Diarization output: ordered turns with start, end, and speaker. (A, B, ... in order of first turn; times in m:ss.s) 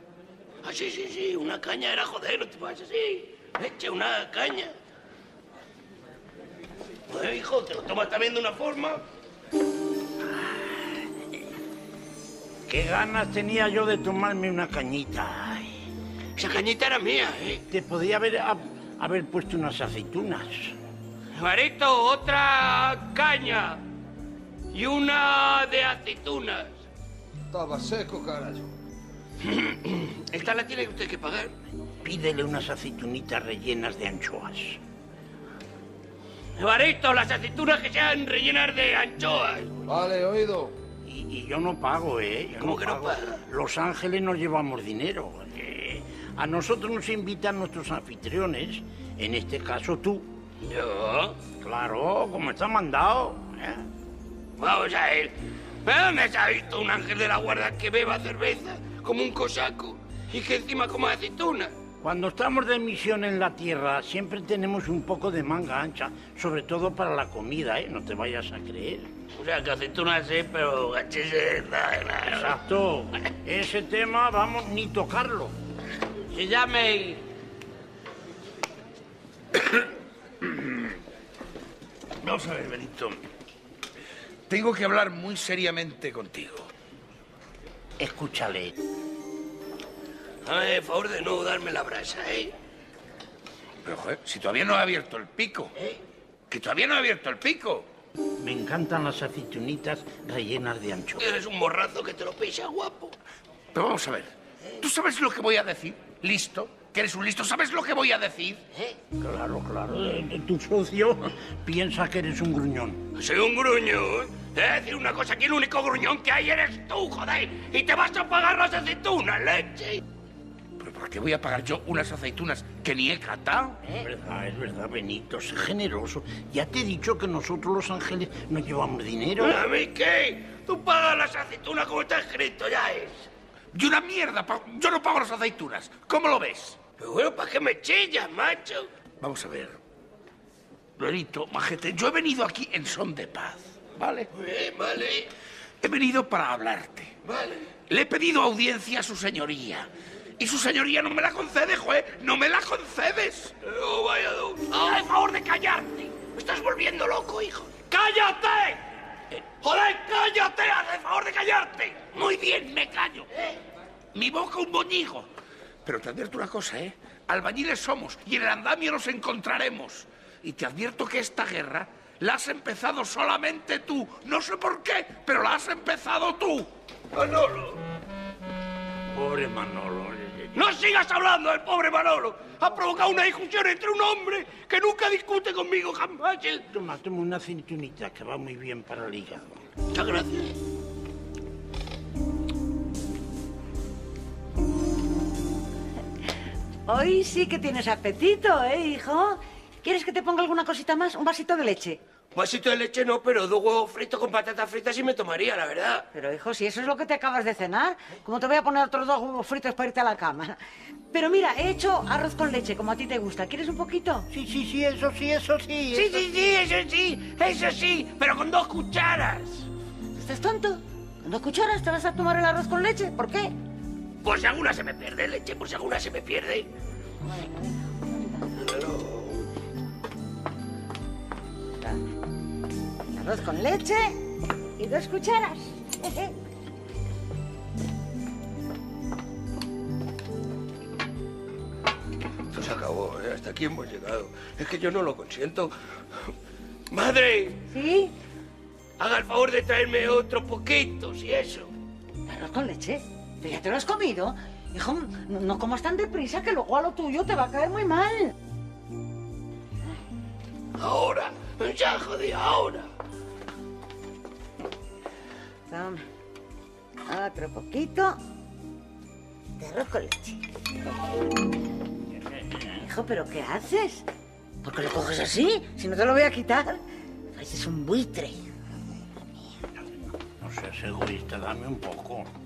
0:00.6-0:04.7 A
0:07.1-0:09.0 A
0:12.7-0:15.8 B
0:16.4-0:17.6 A
0:17.7-0:20.7 B
0:21.3-0:23.8 A
0:24.7-0:26.8 A
0:27.5-0:28.7 C
0:29.4-0:31.5 A
0:32.0-0:34.8 B
0:36.6-0:39.7 A
0:39.8-0:40.7 C
0:41.0-0:50.3 B
0:42.6-0:43.4 A
0:50.6-0:51.4 A
0:51.6-0:53.9 B
0:54.6-0:55.3 A
0:55.8-1:01.7 A
1:02.0-1:09.1 B
1:09.4-1:12.5 A
1:12.3-1:15.6 B
1:16.2-1:17.2 A
1:20.4-1:20.8 D
1:22.2-1:23.2 D
1:24.5-1:26.7 D
1:28.0-1:28.7 B
1:30.4-1:32.5 A
1:33.8-1:35.7 D
1:36.5-1:37.9 D
1:38.4-1:41.2 B
1:41.2-1:43.1 A
1:43.7-1:48.6 D
1:49.2-1:53.0 B
1:53.1-2:00.0 A
2:00.8-2:03.8 D
2:03.9-2:09.6 B
2:09.4-2:13.3 A
2:13.7-2:16.8 D
2:17.0-2:18.9 A
2:19.2-2:19.8 D
2:21.0-2:24.3 D
2:24.3-2:25.3 A
2:25.8-2:27.1 D
2:27.2-2:27.7 A
2:27.9-2:33.5 D
2:33.6-2:38.8 A
2:35.2-2:35.7 D
2:39.6-2:43.6 A
2:44.1-2:45.3 D
2:45.8-2:56.7 D
2:57.1-2:57.8 A
2:59.1-3:00.5 B
3:00.5-3:06.6 A
3:06.7-3:09.6 B
3:09.9-3:10.5 A
3:16.9-3:22.0 E
3:22.3-3:26.0 A
3:26.1-3:30.6 E
3:31.1-3:34.2 E
3:34.3-3:36.2 B
3:35.9-3:39.7 A
3:40.1-3:43.5 E
3:44.2-3:46.7 A
3:47.2-3:48.5 E
3:48.5-3:49.5 A
3:53.1-3:54.2 E
3:54.8-3:56.3 E
4:02.5-4:06.3 A
4:06.9-4:07.6 A
4:07.7-4:08.1 E
4:09.0-4:11.7 A
4:12.2-4:18.3 E
4:20.8-4:22.9 A
4:25.7-4:26.0 E
4:27.1-4:28.2 E
4:29.6-4:30.4 E
4:32.2-4:32.9 B
4:32.8-4:34.0 E
4:34.6-4:36.8 E
4:37.3-4:38.4 E
4:39.8-4:42.3 B